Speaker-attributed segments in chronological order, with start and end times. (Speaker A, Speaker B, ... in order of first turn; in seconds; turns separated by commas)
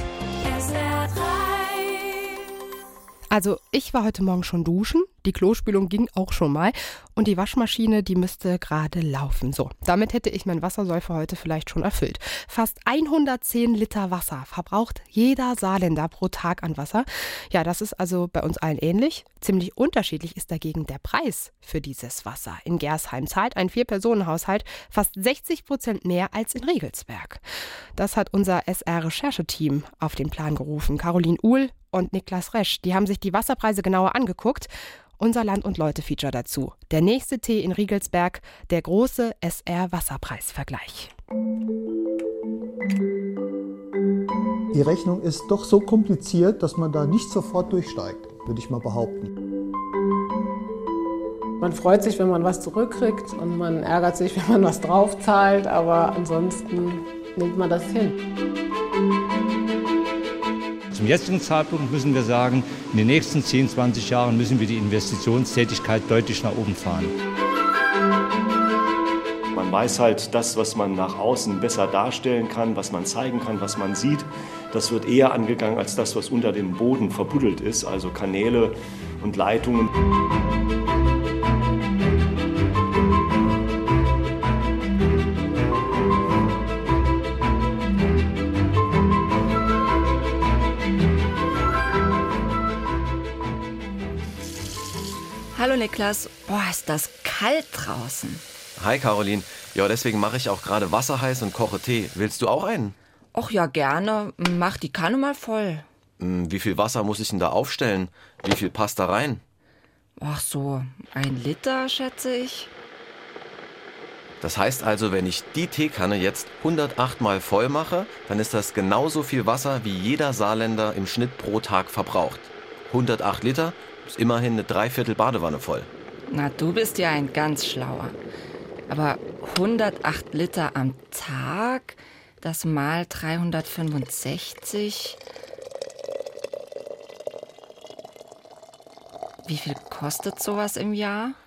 Speaker A: 0.6-1.6, Speaker B: 3.3-27.4, Speaker B: 27.9-41.1, Speaker C: 44.7-49.3, Speaker D: 51.6-58.1, Speaker E: 60.9-67.1, Speaker F: 69.5-79.9, Speaker A: 95.5-98.4, Speaker G: 98.8-103.0, Speaker A: 103.3-105.8, Speaker G: 106.2-109.4, Speaker A: 110.2-112.7, Speaker G: 114.4-125.9, Speaker A: 126.3-128.2, Speaker A: 128.9-135.2, Speaker A: 139.4-141.4